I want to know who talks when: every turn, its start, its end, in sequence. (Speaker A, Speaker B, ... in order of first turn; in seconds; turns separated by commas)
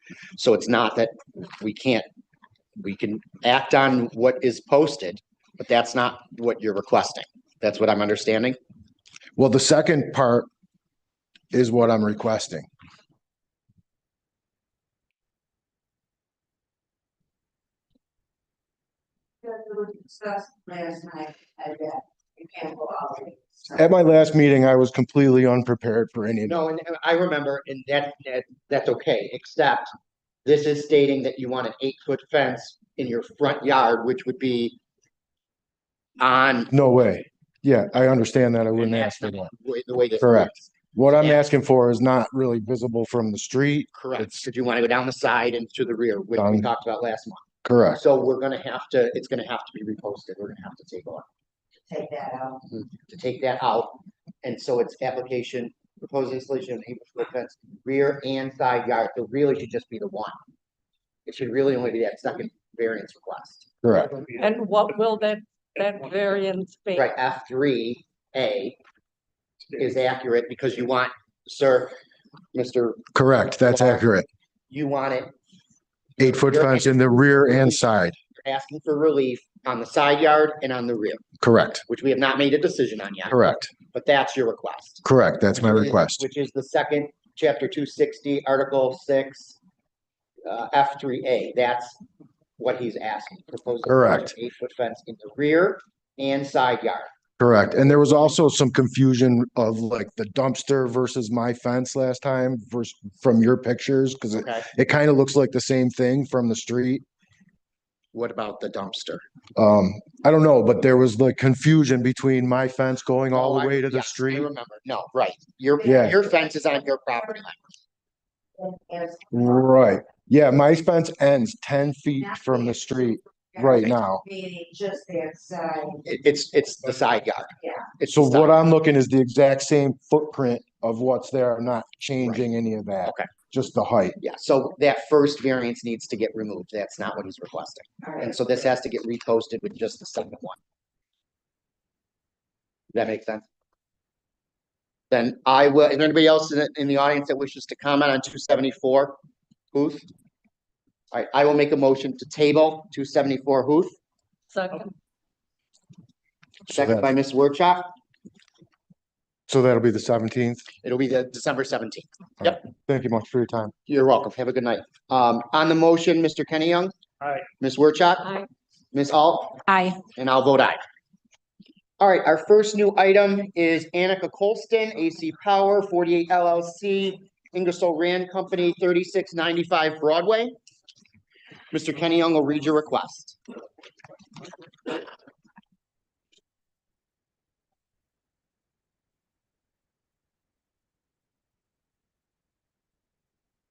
Speaker A: 0.4-2.1, Speaker A: 2.8-8.6, Speaker B: 9.4-10.5, Speaker B: 11.5-12.7, Speaker C: 19.4-23.8, Speaker B: 23.7-26.6, Speaker A: 26.5-29.9, Speaker A: 30.4-34.8, Speaker A: 36.2-36.7, Speaker B: 36.7-39.5, Speaker A: 38.8-41.5, Speaker B: 40.2-44.4, Speaker A: 43.9-51.2, Speaker B: 46.4-46.7, Speaker B: 47.6-48.0, Speaker C: 51.9-52.6, Speaker A: 52.7-60.4, Speaker A: 61.3-63.7, Speaker B: 63.8-64.1, Speaker D: 64.3-67.1, Speaker A: 67.0-68.8, Speaker A: 69.8-72.0, Speaker A: 72.5-73.0, Speaker B: 73.1-74.3, Speaker A: 73.7-74.0, Speaker A: 74.7-75.3, Speaker A: 76.2-77.8, Speaker B: 76.2-78.2, Speaker A: 78.4-81.2, Speaker B: 81.4-81.8, Speaker A: 81.9-83.4, Speaker B: 83.3-83.7, Speaker A: 83.9-85.0, Speaker B: 85.0-86.2, Speaker A: 85.5-89.6, Speaker A: 90.5-92.0, Speaker A: 92.6-97.1, Speaker B: 93.8-94.3, Speaker B: 97.4-107.0, Speaker A: 104.4-104.7, Speaker A: 108.1-109.2, Speaker B: 109.6-114.5, Speaker A: 113.3-117.6, Speaker B: 115.8-116.2, Speaker C: 118.6-119.5, Speaker B: 119.3-124.2, Speaker C: 122.2-126.0, Speaker A: 126.0-128.6, Speaker B: 128.1-134.2, Speaker A: 134.2-140.6, Speaker A: 142.9-143.5, Speaker A: 145.1-149.2, Speaker A: 149.7-150.1, Speaker A: 151.1-153.9, Speaker D: 154.5-154.9, Speaker A: 156.7-157.9, Speaker B: 156.7-157.1, Speaker B: 159.5-160.7, Speaker A: 160.8-162.6, Speaker B: 162.4-163.7, Speaker A: 163.9-166.9, Speaker A: 167.6-168.4, Speaker A: 168.9-169.6, Speaker D: 169.7-170.0, Speaker A: 170.2-170.8, Speaker A: 172.0-180.5, Speaker A: 181.7-183.4